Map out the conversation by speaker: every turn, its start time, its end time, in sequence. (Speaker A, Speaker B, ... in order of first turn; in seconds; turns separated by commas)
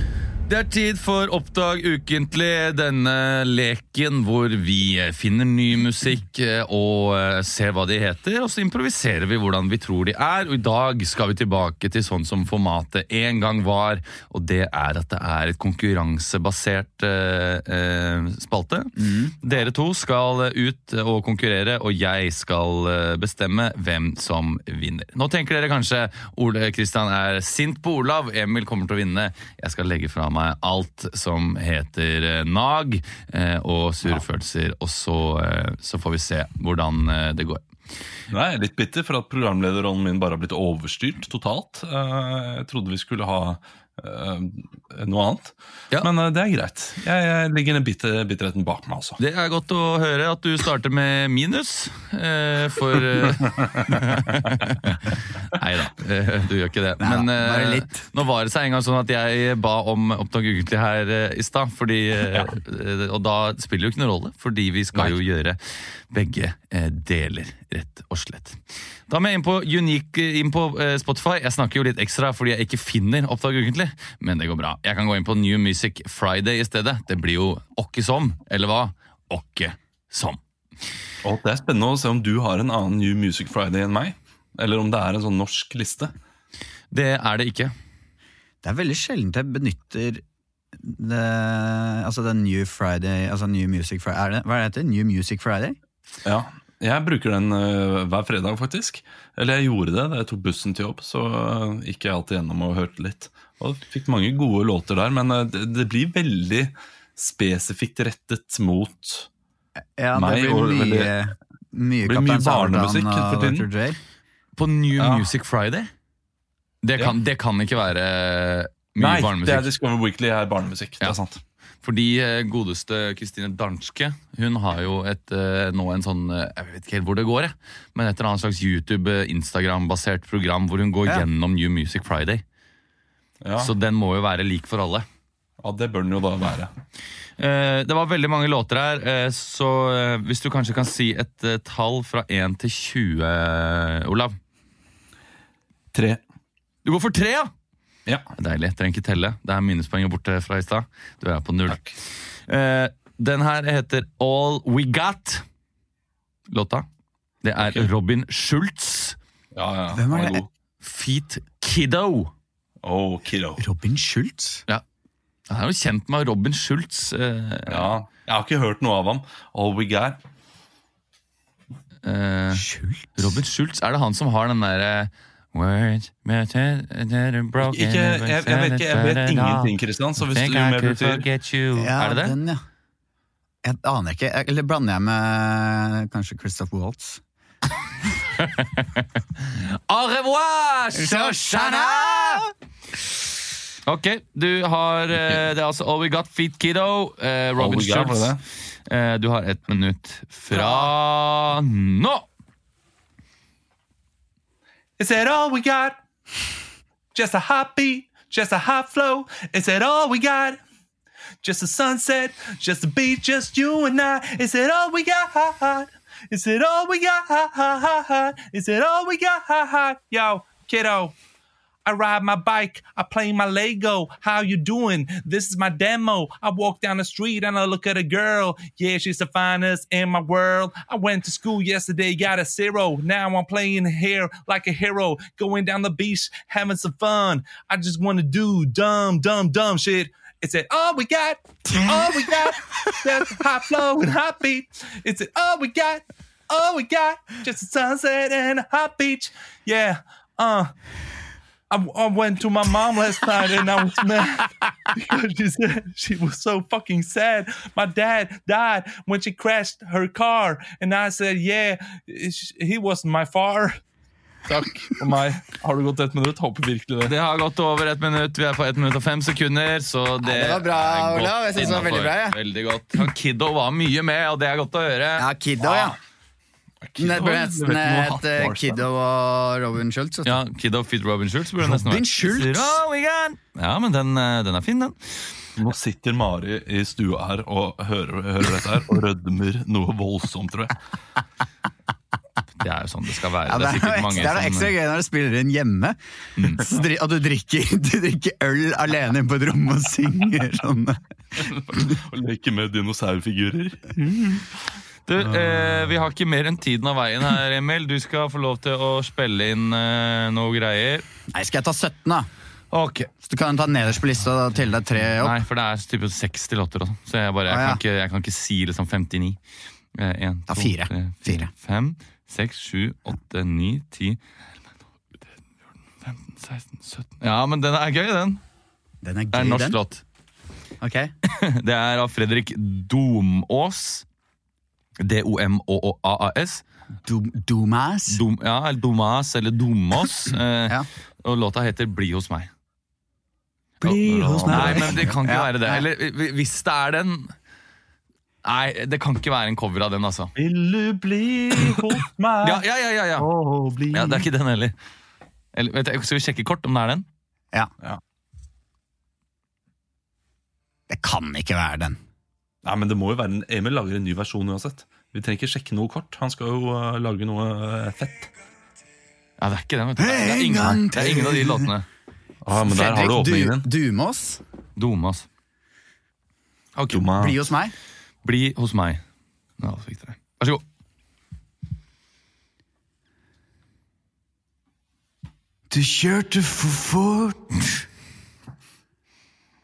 Speaker A: 0.5-37.6, Speaker B: 18.9-19.4, Speaker C: 38.3-49.2, Speaker A: 49.2-80.4, Speaker C: 53.2-54.3, Speaker B: 57.0-58.0, Speaker C: 81.2-86.1, Speaker A: 86.9-87.7, Speaker B: 88.6-90.2, Speaker B: 90.8-95.8, Speaker C: 96.2-109.3, Speaker B: 110.0-114.0, Speaker C: 110.1-111.1, Speaker C: 112.0-113.7, Speaker A: 114.5-115.9, Speaker C: 115.0-115.2, Speaker A: 116.8-119.7, Speaker C: 119.0-121.4, Speaker A: 121.8-132.4, Speaker C: 133.4-133.7, Speaker A: 133.6-135.1, Speaker C: 135.6-136.7, Speaker A: 137.4-144.3, Speaker C: 145.9-146.2, Speaker A: 146.8-147.5, Speaker A: 148.3-151.8, Speaker A: 152.5-155.4, Speaker A: 156.5-156.8, Speaker A: 157.4-159.2, Speaker C: 157.6-157.9, Speaker C: 159.5-160.5, Speaker B: 159.9-160.4, Speaker A: 160.8-162.3, Speaker C: 162.8-163.6, Speaker B: 163.6-164.6, Speaker A: 165.5-167.9, Speaker C: 167.7-170.2, Speaker A: 172.0-182.3, Speaker B: 172.5-173.4, Speaker C: 177.6-181.2, Speaker B: 181.8-182.6, Speaker B: 183.6-187.2, Speaker A: 188.4-192.4, Speaker B: 190.9-192.5, Speaker A: 193.8-202.3, Speaker C: 195.1-195.4, Speaker C: 197.6-198.4, Speaker B: 200.5-200.9, Speaker C: 205.0-206.0, Speaker C: 207.1-210.6, Speaker C: 211.4-221.1, Speaker C: 221.8-250.7, Speaker C: 251.7-263.8, Speaker C: 264.5-267.1, Speaker A: 267.0-275.3, Speaker B: 270.2-272.4, Speaker B: 275.2-275.9, Speaker C: 275.6-275.9, Speaker C: 276.8-278.8, Speaker B: 277.0-280.4, Speaker A: 280.2-285.3, Speaker B: 281.6-282.8, Speaker C: 285.6-290.8, Speaker A: 292.6-294.7, Speaker B: 293.4-301.0, Speaker A: 296.4-296.7, Speaker C: 301.4-304.4, Speaker A: 305.1-311.1, Speaker B: 311.3-312.3, Speaker A: 312.7-313.1, Speaker B: 313.2-315.4, Speaker A: 315.2-319.4, Speaker B: 317.5-317.8, Speaker A: 319.9-324.2, Speaker B: 320.5-321.5, Speaker A: 326.0-328.4, Speaker B: 329.0-329.8, Speaker A: 329.3-330.0, Speaker B: 330.8-331.1, Speaker A: 331.3-334.0, Speaker A: 335.0-336.6, Speaker B: 337.0-338.2, Speaker A: 338.1-342.5, Speaker A: 343.8-347.3, Speaker B: 343.8-345.9, Speaker C: 344.5-345.1, Speaker A: 348.4-350.3, Speaker C: 350.4-352.6, Speaker A: 352.4-353.3, Speaker C: 353.2-354.2, Speaker A: 353.9-354.7, Speaker A: 355.5-357.1, Speaker B: 360.9-362.0, Speaker C: 362.6-368.3, Speaker A: 369.4-371.9, Speaker B: 370.0-371.7, Speaker C: 372.4-373.7, Speaker B: 372.6-374.4, Speaker A: 374.8-375.3, Speaker A: 376.8-377.0, Speaker C: 376.9-377.4, Speaker B: 377.1-377.7, Speaker A: 378.2-379.0, Speaker A: 379.6-380.6, Speaker B: 385.7-387.8